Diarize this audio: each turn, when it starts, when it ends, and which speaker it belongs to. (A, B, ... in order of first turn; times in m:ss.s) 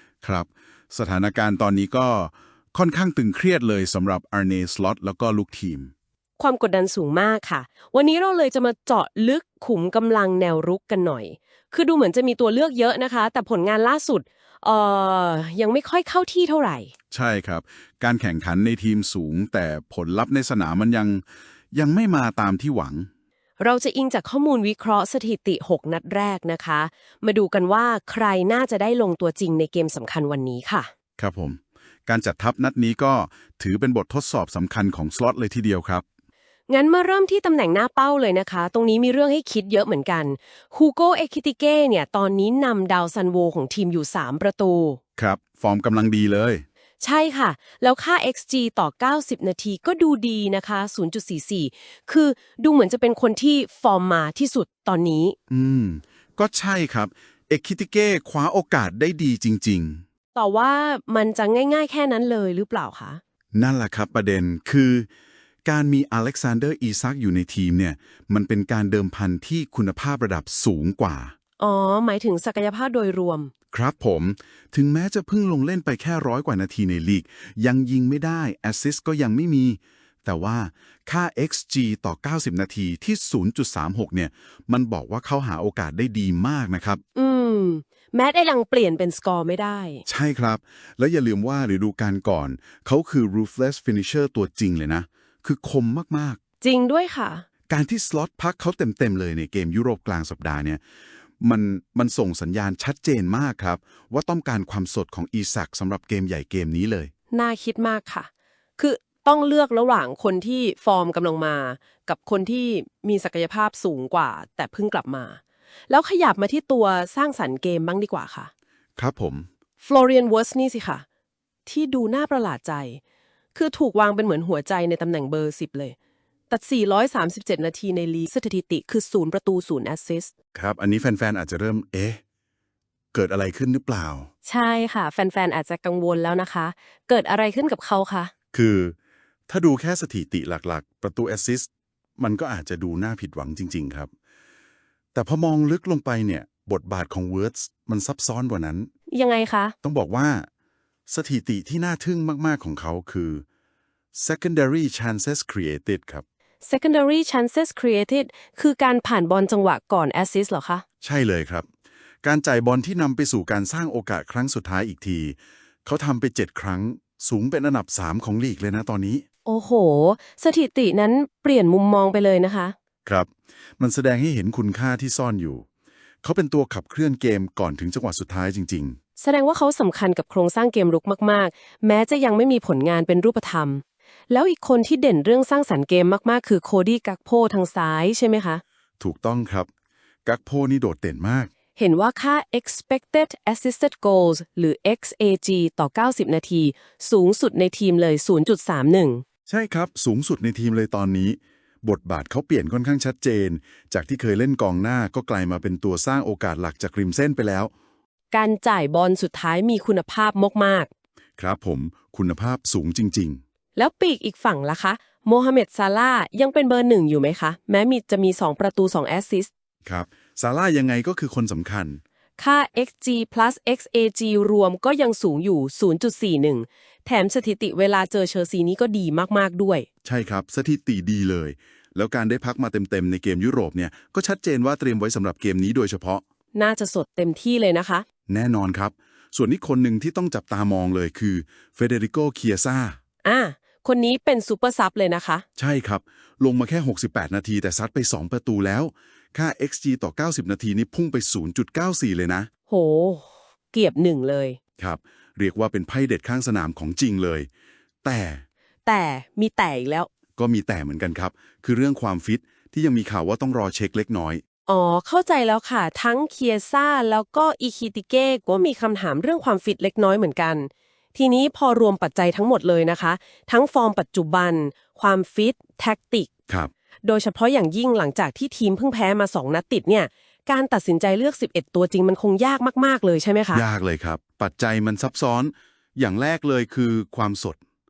0:00.2-0:05.9 A
0:06.4-0:16.9 B
0:17.1-0:23.1 A
0:23.6-0:30.9 B
0:31.2-0:36.0 A
0:36.7-0:45.0 B
0:45.2-0:46.6 A
0:47.0-0:55.4 B
0:55.5-1:00.0 A
1:00.3-1:03.2 B
1:03.5-1:05.1 A
1:05.6-1:11.3 A
1:11.6-1:13.5 B
1:13.7-1:27.0 A
1:27.2-1:30.0 B
1:30.1-1:36.4 A
1:36.6-1:37.4 B
1:37.7-1:40.8 A
1:41.4-1:47.1 A
1:47.3-1:58.5 B
1:59.0-1:59.5 A
1:59.8-2:01.0 B
2:01.7-2:03.0 B
2:03.6-2:06.0 B
2:06.5-2:10.3 B
2:10.6-2:12.2 A
2:13.1-2:14.3 A
2:14.5-2:18.3 B
2:18.5-2:19.0 A
2:19.5-2:21.7 A
2:22.2-2:24.1 A
2:25.1-2:28.9 A
2:29.1-2:29.7 B
2:29.8-2:30.5 A
2:31.1-2:33.4 A
2:34.1-2:36.2 A
2:36.6-2:40.8 B
2:41.0-2:41.7 A
2:42.2-2:49.2 A
2:49.5-2:52.8 B
2:53.0-2:55.6 A
2:56.2-2:59.0 A
2:59.2-3:08.6 B
3:09.0-3:09.7 A
3:10.2-3:11.5 A
3:11.8-3:19.2 B
3:19.5-3:27.7 A
3:28.3-3:30.9 B
3:31.4-3:33.4 A
3:33.8-3:39.5 B
3:39.8-3:42.0 A
3:42.4-3:49.9 B
3:50.0-3:56.2 A
3:56.6-3:58.0 B
3:58.3-4:03.0 A
4:03.2-4:05.4 B
4:05.6-4:12.5 A
4:12.7-4:14.6 B
4:14.8-4:17.5 A
4:18.0-4:18.4 A
4:18.9-4:20.1 B
4:20.4-4:24.4 A
4:24.7-4:36.3 B
4:37.0-4:43.6 B
4:43.5-4:47.6 A